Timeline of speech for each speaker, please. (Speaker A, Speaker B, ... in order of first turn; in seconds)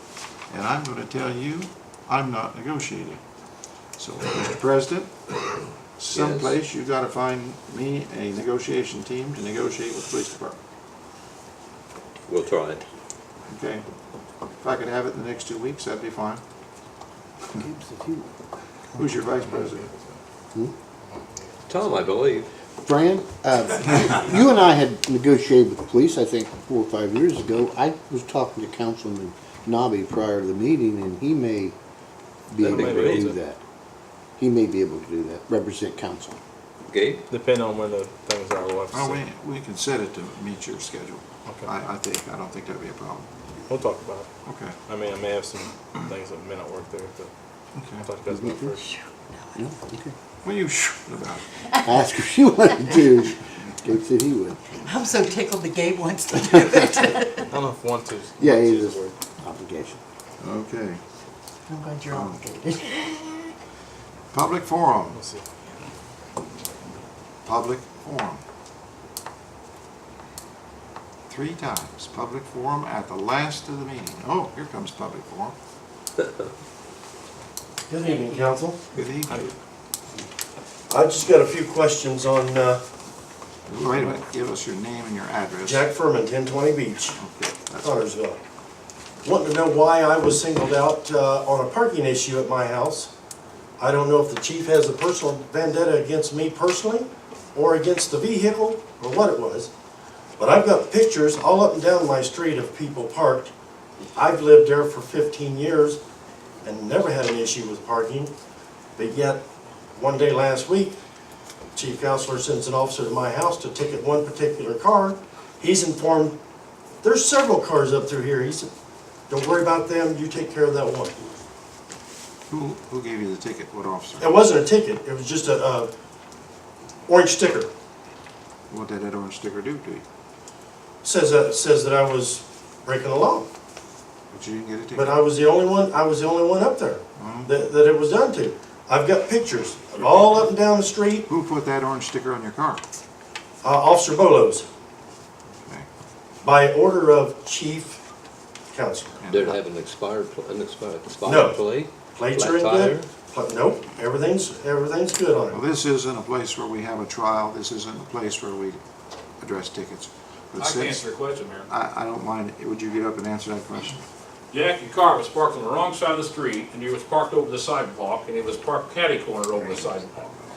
Speaker A: 0.5-3.2, 4.0-5.3, 6.0-10.6, 13.5-13.8, 14.6-16.4, 19.0-19.9, 38.9-43.3, 44.5-44.8, 47.8-48.0, 50.4-51.4, 60.4-61.0, 62.1-62.4, 64.3-65.2, 67.4-68.4, 71.3-75.5, 78.9-79.4, 83.7-85.8, 87.2-88.0, 122.5-124.3, 128.7-130.0, 134.3-135.1, 137.2-137.5, 141.3-142.8, 149.2-149.6, 155.5-158.8, 159.4-161.0, 161.7-164.0
Speaker B: 6.1-6.5, 12.3-12.8, 21.7-22.5, 32.6-33.3, 36.9-37.2, 149.3-153.1
Speaker C: 17.5-18.3, 22.8-31.8, 32.5-33.6, 34.4-36.4, 48.3-48.9, 49.5-50.1, 51.8-54.8, 56.4-57.0, 58.4-60.0
Speaker D: 19.3-20.2, 21.1-22.1, 32.7-33.4, 37.3-39.2, 43.7-44.3, 44.9-47.3, 48.0-48.8, 57.5-59.1, 65.1-65.4
Speaker E: 54.8-57.5, 61.7-63.5
Speaker F: 77.9-78.8, 80.9-82.8, 85.6-87.2, 87.8-88.4, 89.2-93.1, 93.8-99.7, 100.4-103.5, 104.1-106.0, 106.6-108.3, 109.0-109.4, 110.0-111.0, 111.7-116.4, 117.0-118.7, 119.3-121.1, 124.2-125.9, 127.1-127.7, 131.0-133.5, 134.9-141.3, 143.6-144.7, 146.4-148.0, 148.7-149.2, 151.2-155.6
Speaker G: 160.6-161.7, 164.5-170.2